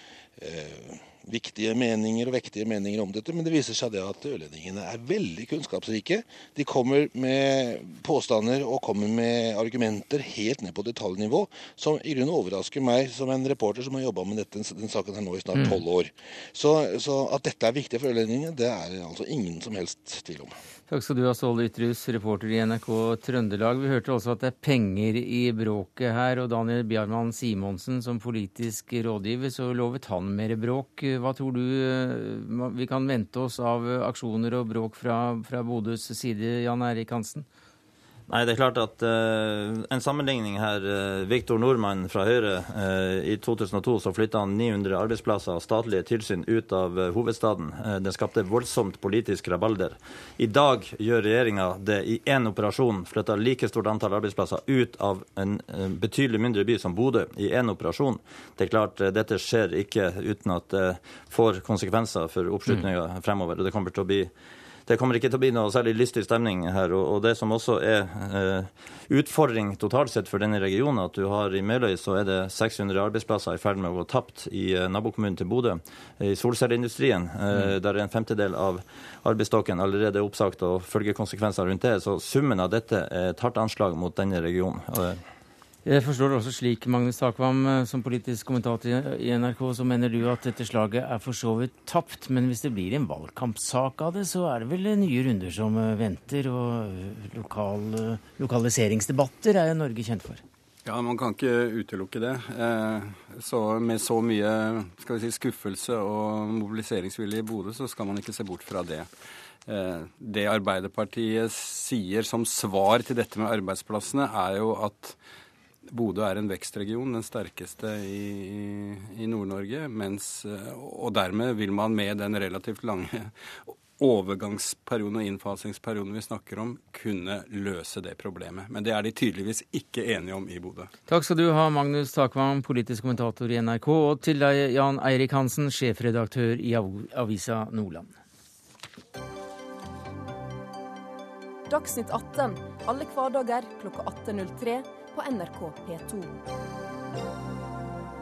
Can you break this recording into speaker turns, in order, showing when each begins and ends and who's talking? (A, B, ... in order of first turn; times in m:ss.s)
0:00.4-0:20.6 A
0:20.9-0:37.5 B
0:38.3-1:04.3 C
1:04.9-1:25.2 C
1:25.8-1:40.4 B
1:40.8-1:49.1 D
1:49.7-1:55.2 D
1:55.9-2:10.9 D
2:11.1-2:18.1 B
2:21.7-2:26.4 E